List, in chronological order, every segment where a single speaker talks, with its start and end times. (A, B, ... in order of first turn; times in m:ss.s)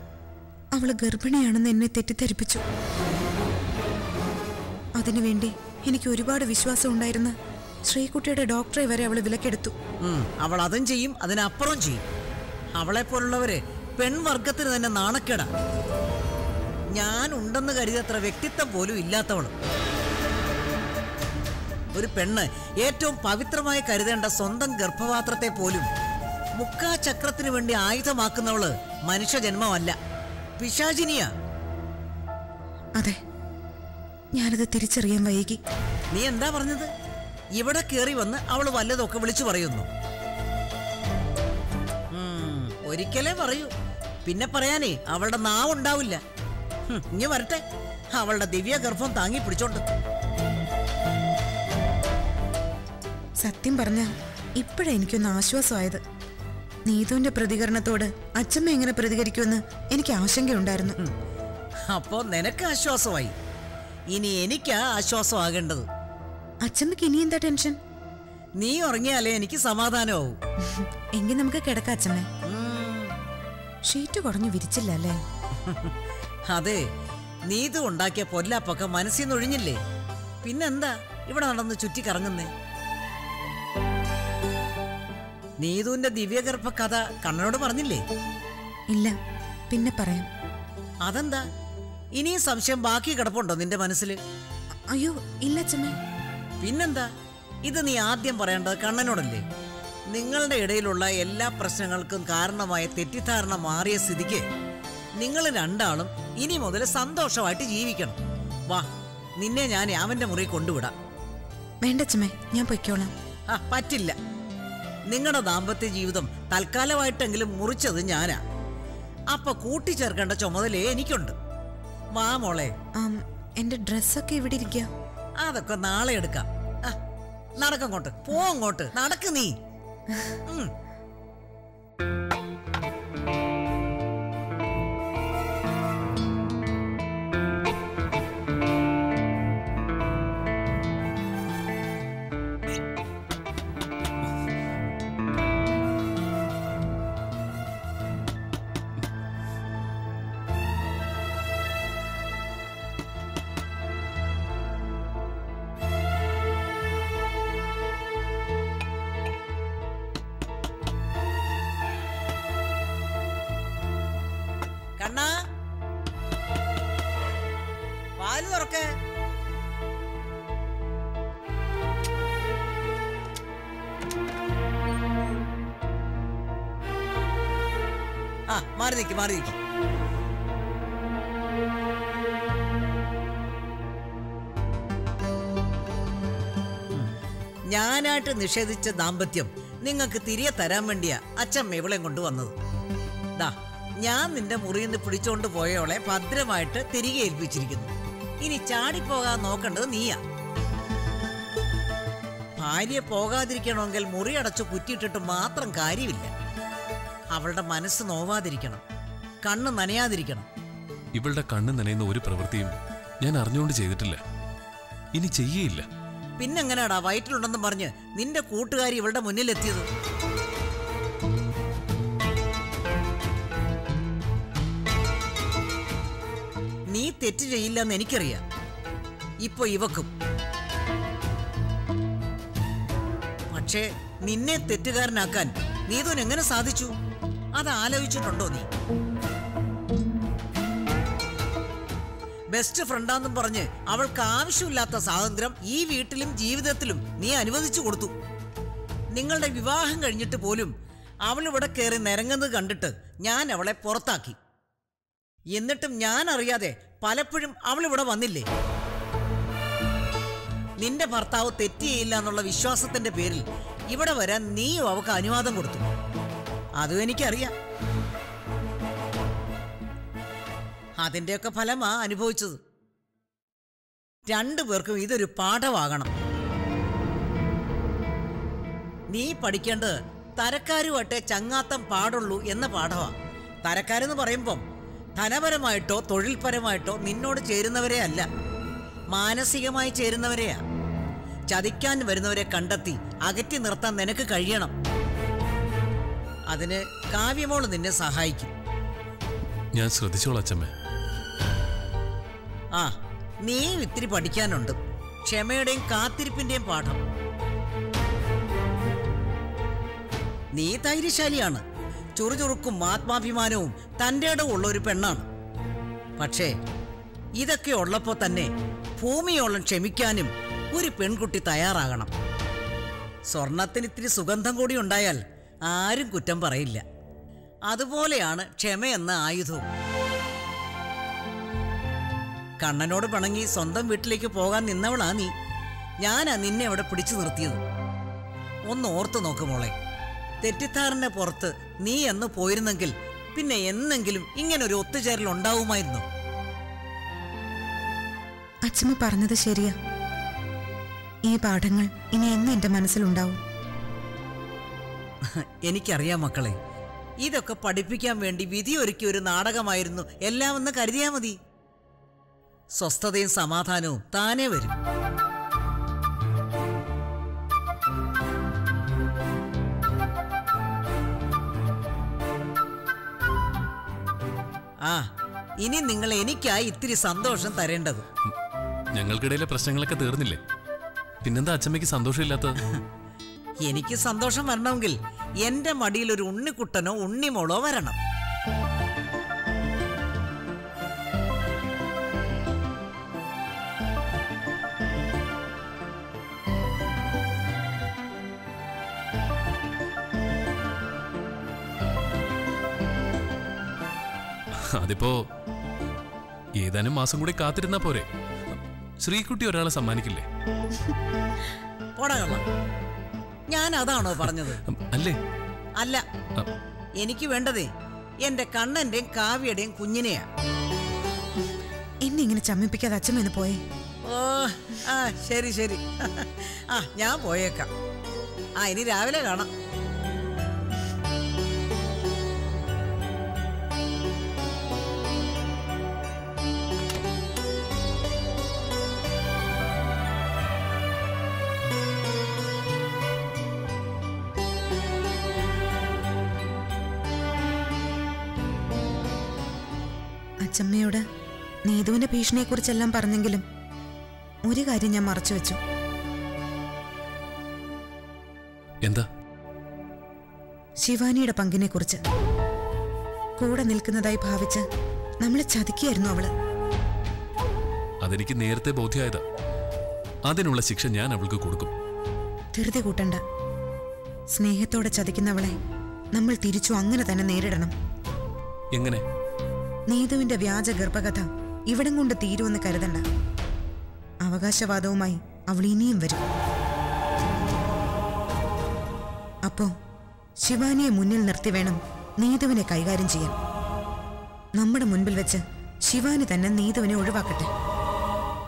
0:00.7-0:02.6 A
0:05.0-0:07.3 A
0:07.8-0:09.7 A
0:10.0-0:12.0 B
0:12.8-0:15.5 B
0:16.9-0:19.5 B
0:21.9-0:25.9 B
0:26.6-0:30.0 B
0:30.6-0:31.3 B
0:34.3-0:35.6 A
0:36.1-0:36.9 B
0:37.5-0:39.9 B
0:42.1-0:43.7 B
0:44.2-0:46.2 B
0:46.9-0:47.6 B
0:48.2-0:49.8 B
0:53.4-0:56.0 A
0:56.8-1:01.0 A
1:01.9-1:03.3 B
1:04.1-1:05.8 B
1:06.6-1:07.8 A
1:08.6-1:10.4 B
1:10.6-1:12.3 A
1:12.4-1:13.1 B
1:13.9-1:15.2 A
1:15.6-1:15.9 B
1:16.5-1:16.8 B
1:17.5-1:19.8 B
1:20.4-1:22.5 B
1:25.6-1:28.0 B
1:29.7-1:30.3 A
1:31.0-1:31.4 B
1:32.2-1:34.2 B
1:34.9-1:36.0 A
1:36.6-1:37.1 B
1:37.6-1:39.4 B
1:40.1-1:44.4 B
1:45.2-1:48.2 B
1:49.4-1:50.9 B
1:51.8-1:53.1 A
1:53.5-1:54.1 B
1:55.1-1:58.4 B
1:59.3-2:01.3 B
2:02.1-2:02.7 B
2:03.0-2:04.9 A
2:05.4-2:07.0 B
2:07.6-2:09.5 B
2:10.5-2:10.7 B
2:45.0-2:45.4 B
2:48.2-2:48.9 B
2:58.5-2:59.5 B
3:07.7-3:12.5 B
3:13.4-3:20.2 B
3:22.6-3:26.3 B
3:27.3-3:28.8 B
3:29.4-3:30.4 B
3:31.1-3:34.2 C
3:35.1-3:35.8 C
3:36.4-3:39.8 B
3:46.9-3:48.4 B
3:49.4-3:50.1 B
3:53.5-3:56.9 B
3:57.6-3:58.7 B
4:02.5-4:08.1 B
4:09.1-4:10.7 B
4:11.2-4:14.4 B
4:15.5-4:18.4 B
4:20.8-4:25.8 B
4:26.8-4:27.5 B
4:31.0-4:32.6 B
4:34.3-4:36.1 B
4:39.1-4:43.1 B
4:43.6-4:44.6 B
4:45.2-4:48.3 B
4:49.1-4:50.6 B
4:51.5-4:54.7 B
4:56.5-4:58.5 B
4:59.7-5:00.7 C
5:02.7-5:07.0 B
5:10.5-5:11.6 B
5:12.2-5:15.2 B
5:16.2-5:16.5 B
5:17.4-5:22.1 B
5:23.3-5:26.8 B
5:27.7-5:29.6 B
5:32.6-5:35.3 B
5:36.0-5:37.6 B
5:38.7-5:39.7 B
5:40.4-5:46.0 B
5:48.6-5:49.7 A
5:51.2-5:53.4 A
5:55.2-5:56.6 B
5:57.2-6:01.4 B
6:02.8-6:04.7 B
6:15.6-6:18.0 B
6:18.9-6:20.4 C
6:21.2-6:22.6 C
6:23.6-6:28.0 B
6:44.5-6:45.2 C
6:46.6-6:50.2 C
6:52.0-6:52.4 B
6:53.5-6:54.6 B
6:54.7-6:55.2 C
6:55.8-6:56.0 B
6:57.0-6:57.7 B
6:58.2-7:00.2 B
7:02.0-7:03.6 A
7:04.0-7:07.7 B
7:08.6-7:09.5 B
7:30.4-7:31.0 A
7:31.6-7:33.4 A
7:34.4-7:35.6 A
7:40.8-7:42.0 A
7:43.4-7:44.6 A
7:45.2-7:46.3 A
7:48.0-7:49.2 C
7:50.3-7:51.7 C
7:52.5-7:53.2 A
7:54.3-7:55.6 A
7:56.1-7:57.7 A
7:58.7-7:59.0 C
7:59.9-8:03.0 A
8:04.2-8:06.2 A
8:09.4-8:09.7 A
8:10.4-8:13.4 A
8:14.6-8:17.5 A